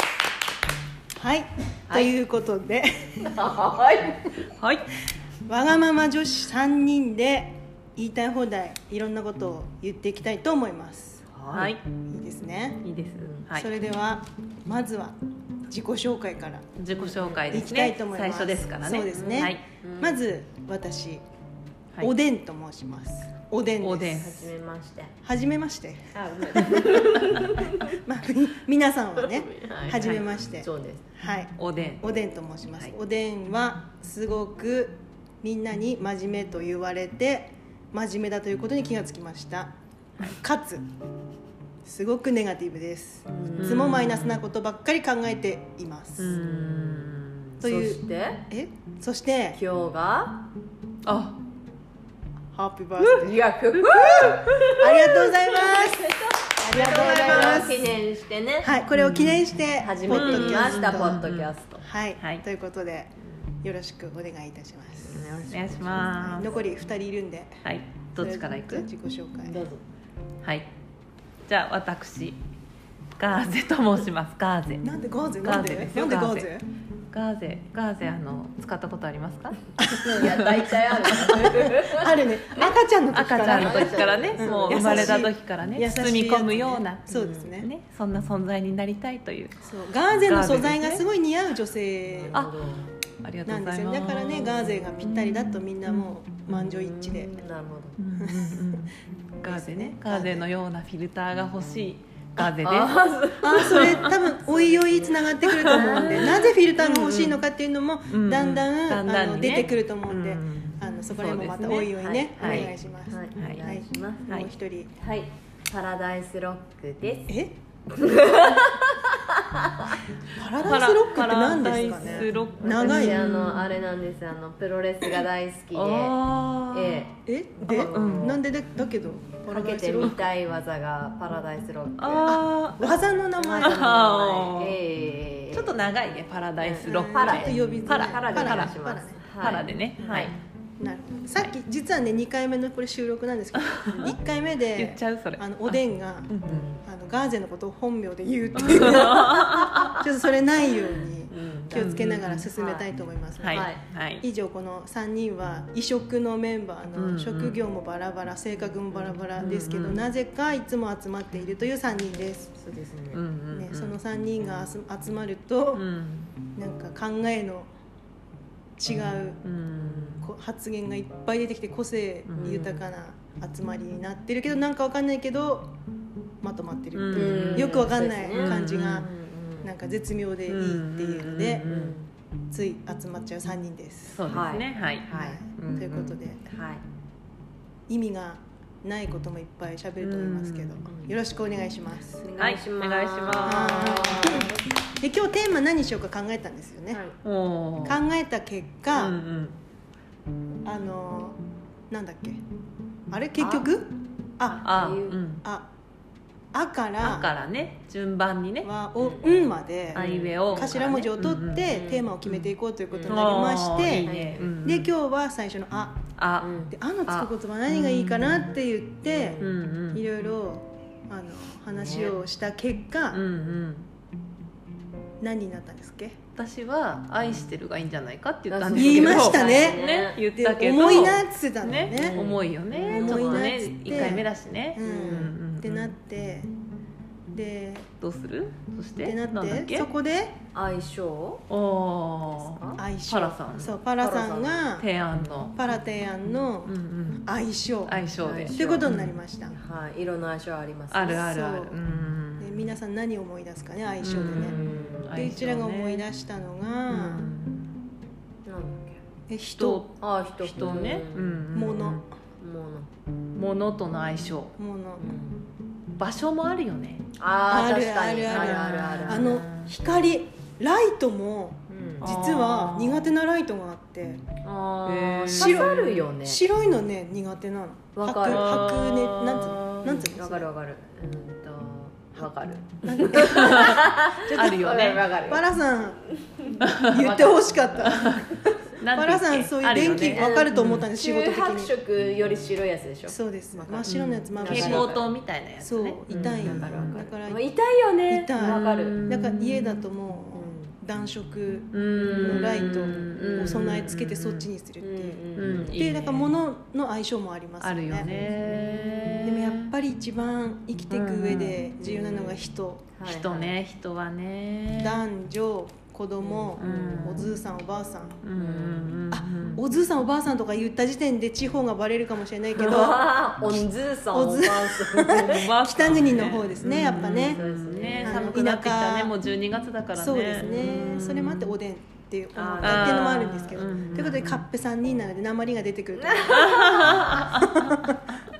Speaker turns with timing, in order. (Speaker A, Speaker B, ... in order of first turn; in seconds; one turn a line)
Speaker A: 1.2-3.4
Speaker B: 3.2-4.3
Speaker C: 4.6-4.9
Speaker A: 5.5-11.2
Speaker B: 11.3-11.7
Speaker C: 11.5-11.8
Speaker A: 11.9-12.8
Speaker C: 12.8-13.7
Speaker B: 13.2-13.4
Speaker A: 13.5-15.2
Speaker A: 15.7-16.7
Speaker C: 16.8-19.6
Speaker B: 16.9-17.7
Speaker A: 17.5-21.2
Speaker B: 19.8-20.2
Speaker A: 22.0-24.3
Speaker C: 23.8-24.5
Speaker B: 24.1-25.1
Speaker A: 25.2-27.2
Speaker B: 26.1-27.9
Speaker A: 27.9-39.7
Speaker B: 29.2-31.1
Speaker C: 30.0-30.3
Speaker C: 31.6-32.0
Speaker A: 40.3-40.9
Speaker A: 41.9-46.4
Speaker B: 43.3-43.9
Speaker C: 43.5-44.4
Speaker C: 46.2-47.5
Speaker B: 46.3-48.4
Speaker A: 47.6-49.6
Speaker B: 49.5-50.5
Speaker C: 51.0-51.4
Speaker A: 52.5-53.4
Speaker C: 53.0-54.7
Speaker B: 53.2-58.7
Speaker A: 54.8-57.9
Speaker C: 57.1-57.7
Speaker A: 58.6-61.2
Speaker C: 58.9-59.4
Speaker B: 59.8-61.9
Speaker C: 60.1-61.5
Speaker A: 61.8-63.1
Speaker A: 63.6-65.2
Speaker B: 65.0-66.7
Speaker C: 65.5-66.5
Speaker A: 66.3-67.6
Speaker C: 67.7-68.9
Speaker A: 68.2-69.5
Speaker B: 69.5-69.8
Speaker C: 71.5-72.4
Speaker C: 73.2-74.8
Speaker A: 74.8-76.7
Speaker C: 75.4-76.5
Speaker C: 77.1-79.6
Speaker A: 79.8-80.3
Speaker B: 80.0-82.2
Speaker C: 80.1-81.5
Speaker A: 81.1-87.7
Speaker C: 83.1-89.6
Speaker B: 83.4-85.2
Speaker A: 89.7-92.4
Speaker C: 90.2-91.0
Speaker B: 92.2-92.9
Speaker C: 93.2-96.1
Speaker A: 93.5-97.4
Speaker B: 96.6-98.0
Speaker C: 98.0-104.1
Speaker A: 98.2-98.8
Speaker A: 99.4-100.5
Speaker B: 102.6-106.3
Speaker A: 103.4-114.9
Speaker C: 105.4-107.4
Speaker C: 108.1-112.7
Speaker B: 111.8-114.3
Speaker C: 113.3-113.7
Speaker B: 115.0-120.0
Speaker A: 117.3-117.5
Speaker A: 120.4-123.2
Speaker C: 120.6-123.7
Speaker B: 121.9-128.4
Speaker C: 125.7-127.0
Speaker A: 127.3-130.2
Speaker C: 127.9-128.4
Speaker B: 129.5-132.4
Speaker C: 132.0-133.0
Speaker A: 132.3-133.8
Speaker B: 133.4-135.8
Speaker C: 133.6-134.8
Speaker C: 135.5-138.8
Speaker B: 136.6-140.3
Speaker A: 136.8-139.3
Speaker C: 139.4-140.4
Speaker A: 140.8-153.7
Speaker C: 143.7-144.1
Speaker C: 144.8-146.7
Speaker B: 146.5-146.8
Speaker C: 148.6-150.0
Speaker B: 149.1-150.0
Speaker B: 150.8-152.9
Speaker C: 151.7-152.5
Speaker C: 153.4-154.2
Speaker B: 153.5-153.8
Speaker A: 154.2-162.5
Speaker C: 157.0-157.6
Speaker B: 158.6-159.2
Speaker C: 159.4-160.1
Speaker B: 162.5-163.2
Speaker C: 163.1-164.0
Speaker A: 163.5-165.8
Speaker C: 165.8-166.4
Speaker A: 166.5-167.7
Speaker A: 168.8-169.4
Speaker C: 169.4-170.2
Speaker B: 169.8-170.2
Speaker A: 170.2-175.7
Speaker C: 172.3-172.8
Speaker A: 176.4-179.1
Speaker C: 176.9-177.8
Speaker B: 177.1-179.7
Speaker C: 178.3-179.1
Speaker A: 179.6-181.7
Speaker C: 180.5-182.0
Speaker B: 181.7-182.1
Speaker A: 182.5-184.2
Speaker C: 184.1-186.1
Speaker B: 184.2-185.4
Speaker A: 185.1-186.4
Speaker B: 186.4-186.8
Speaker A: 187.9-192.4
Speaker C: 190.0-190.8
Speaker B: 190.9-191.1
Speaker B: 192.2-194.7
Speaker C: 192.4-194.0
Speaker A: 193.4-194.5
Speaker A: 195.0-197.0
Speaker B: 196.9-197.2
Speaker C: 197.2-198.0
Speaker A: 197.8-199.2
Speaker C: 198.9-199.6
Speaker A: 200.7-201.4
Speaker A: 201.9-202.4
Speaker A: 203.1-204.7
Speaker B: 203.4-203.7
Speaker B: 204.6-205.2
Speaker C: 204.6-205.4
Speaker A: 206.5-207.3
Speaker C: 207.0-208.7
Speaker A: 208.6-216.0
Speaker B: 209.0-211.1
Speaker C: 209.9-211.7
Speaker B: 211.7-212.1
Speaker B: 212.9-213.4
Speaker C: 213.1-214.9
Speaker B: 214.0-214.5
Speaker C: 216.2-216.5
Speaker B: 216.4-216.7
Speaker A: 216.7-223.2
Speaker C: 217.1-218.4
Speaker B: 219.1-219.5
Speaker C: 219.4-220.0
Speaker B: 221.8-222.2
Speaker C: 223.1-223.9
Speaker A: 225.2-226.2
Speaker C: 226.4-235.9
Speaker B: 228.5-231.1
Speaker A: 228.7-229.8
Speaker A: 230.4-232.3
Speaker B: 231.9-234.2
Speaker A: 232.8-236.5
Speaker B: 234.8-235.3
Speaker A: 237.3-237.9
Speaker C: 238.0-239.9
Speaker A: 239.0-240.4
Speaker B: 240.5-241.4
Speaker C: 241.5-243.8
Speaker B: 242.2-242.8
Speaker A: 242.8-244.9
Speaker B: 244.0-244.7
Speaker C: 244.8-245.6
Speaker A: 245.5-248.0
Speaker C: 246.7-247.2
Speaker C: 247.9-249.2
Speaker B: 248.2-248.9
Speaker A: 248.5-249.6
Speaker B: 249.5-251.3
Speaker C: 250.9-252.6
Speaker A: 251.1-251.8
Speaker A: 252.4-254.6
Speaker C: 254.0-256.0
Speaker B: 254.3-255.3
Speaker A: 255.1-257.3
Speaker C: 256.9-257.8
Speaker B: 258.5-259.0
Speaker A: 259.3-259.9
Speaker C: 259.6-262.0
Speaker B: 260.0-261.4
Speaker A: 261.5-262.1
Speaker B: 262.4-262.9
Speaker C: 263.4-264.5
Speaker A: 264.6-265.0
Speaker B: 265.0-265.5
Speaker C: 266.0-267.1
Speaker B: 267.2-269.4
Speaker A: 267.5-274.2
Speaker C: 268.3-269.7
Speaker B: 271.7-272.1
Speaker C: 272.0-273.1
Speaker B: 274.4-276.4
Speaker C: 274.9-276.0
Speaker A: 275.3-280.5
Speaker B: 278.0-285.5
Speaker C: 278.3-278.8
Speaker A: 282.8-284.6
Speaker C: 282.9-285.1
Speaker A: 285.3-286.0
Speaker B: 286.2-286.6
Speaker C: 286.6-290.9
Speaker A: 286.8-291.7
Speaker B: 289.9-295.1
Speaker A: 293.1-295.1
Speaker C: 293.9-297.0
Speaker A: 295.6-297.5
Speaker B: 296.1-299.0
Speaker A: 298.1-308.1
Speaker C: 298.4-299.8
Speaker B: 300.3-300.8
Speaker C: 301.7-304.5
Speaker B: 302.0-303.7
Speaker B: 304.8-305.8
Speaker C: 305.4-306.3
Speaker C: 307.6-309.7
Speaker B: 308.0-309.3
Speaker A: 309.2-312.9
Speaker C: 310.9-311.6
Speaker B: 311.8-312.4
Speaker B: 313.0-313.6
Speaker C: 313.1-315.0
Speaker A: 314.8-318.2
Speaker B: 316.2-317.2
Speaker C: 316.6-317.3
Speaker C: 318.2-319.6
Speaker B: 318.4-319.0
Speaker A: 319.1-327.4
Speaker B: 322.6-325.5
Speaker C: 325.1-331.6
Speaker B: 326.9-328.3
Speaker A: 328.0-329.1
Speaker A: 330.0-338.0
Speaker B: 330.4-331.1
Speaker B: 332.4-334.2
Speaker C: 332.6-334.4
Speaker B: 336.0-337.2
Speaker C: 336.3-337.9